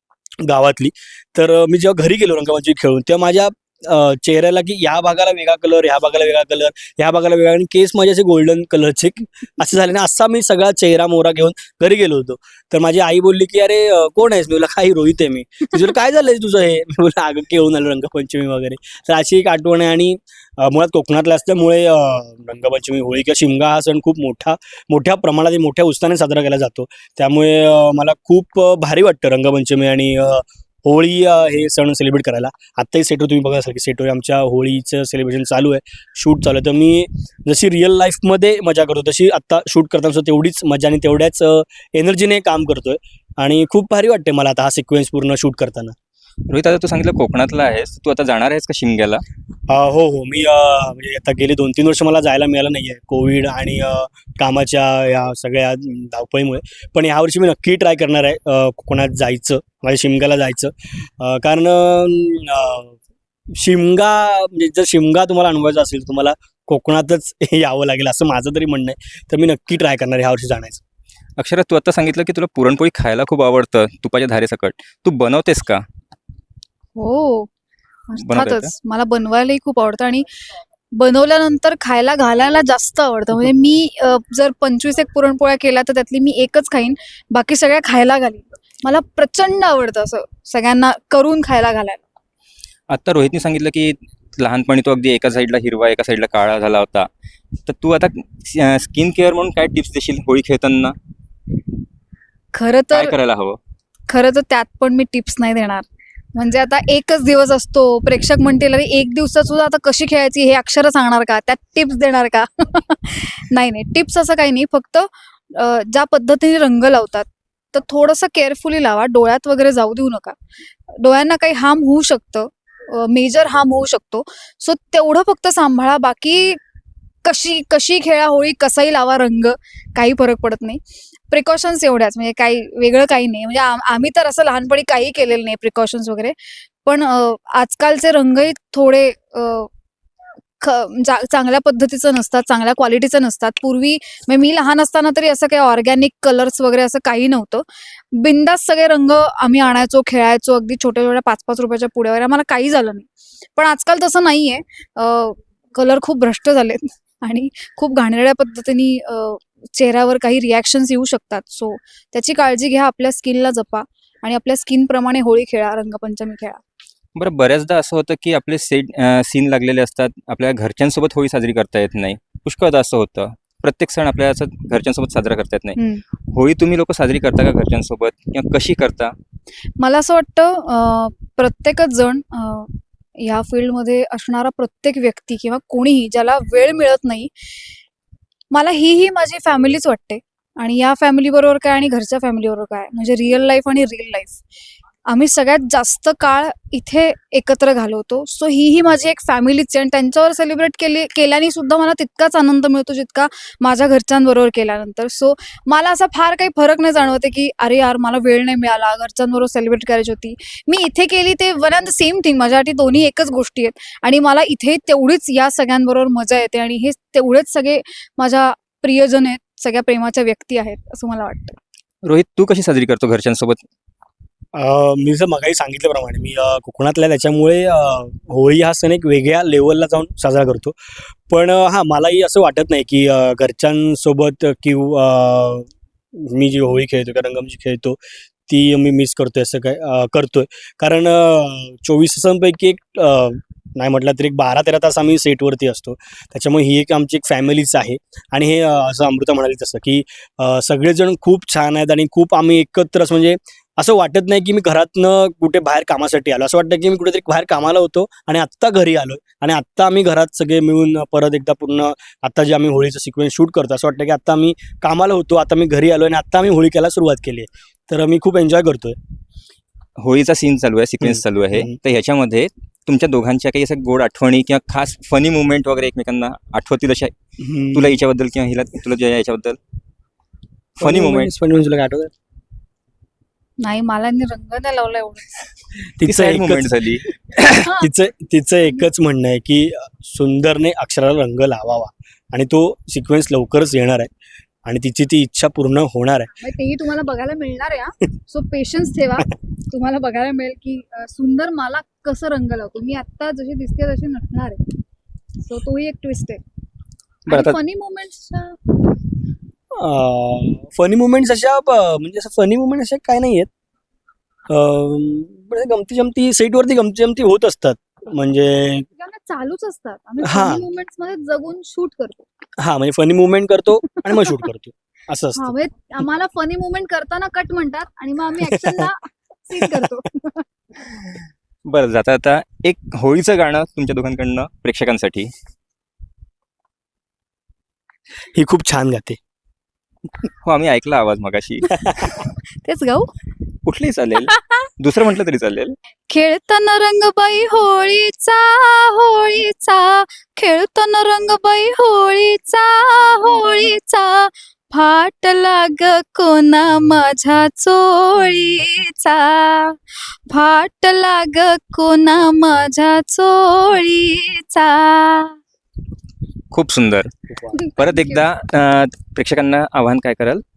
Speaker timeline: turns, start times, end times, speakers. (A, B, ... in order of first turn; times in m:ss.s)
0:00.4-0:46.0 A
0:46.5-0:49.2 B
0:49.7-1:03.0 A
1:03.5-1:10.8 A
1:11.4-1:15.8 B
1:17.0-1:17.5 C
1:18.1-1:20.2 C
1:18.2-1:18.7 B
1:20.9-1:32.0 C
1:32.9-1:37.1 B
1:37.6-1:40.9 B
1:42.5-1:43.1 C
1:42.9-1:43.6 B
1:44.1-2:00.4 C
2:00.9-2:06.6 C
2:07.2-2:16.4 C
2:16.9-2:19.7 C
2:20.6-2:46.6 C
2:47.1-2:59.1 B
2:55.8-2:56.0 C
2:59.8-3:07.3 C
3:08.5-3:14.4 C
3:15.1-3:41.6 C
3:42.0-3:43.6 B
3:44.6-4:29.0 A
4:30.0-4:37.1 B
4:31.0-4:31.8 A
4:37.4-4:38.0 A
4:37.7-4:39.6 B
4:40.8-4:41.3 B
4:40.8-4:42.1 A
4:43.6-4:45.4 C
4:46.0-4:46.7 A
4:46.0-4:47.6 B
4:47.6-4:47.9 C
4:47.7-4:54.1 A
4:54.6-4:56.3 A
4:56.3-5:04.6 C
5:05.4-5:06.4 C
5:07.3-5:08.8 C
5:09.8-5:13.5 A
5:14.5-5:18.9 A
5:19.0-5:22.2 C
5:20.2-5:20.6 A
5:22.6-5:25.5 A
5:24.0-5:24.4 C
5:25.4-5:30.4 C
5:28.4-5:28.9 A
5:30.8-5:35.3 B
5:38.3-5:39.2 A
5:40.4-5:42.3 B
5:42.6-5:43.1 C
5:43.6-5:45.8 B
5:44.2-5:44.7 C
5:46.1-5:59.8 C
6:00.3-6:05.4 C
6:06.5-6:07.1 B
6:07.5-6:08.2 C
6:07.8-6:10.4 B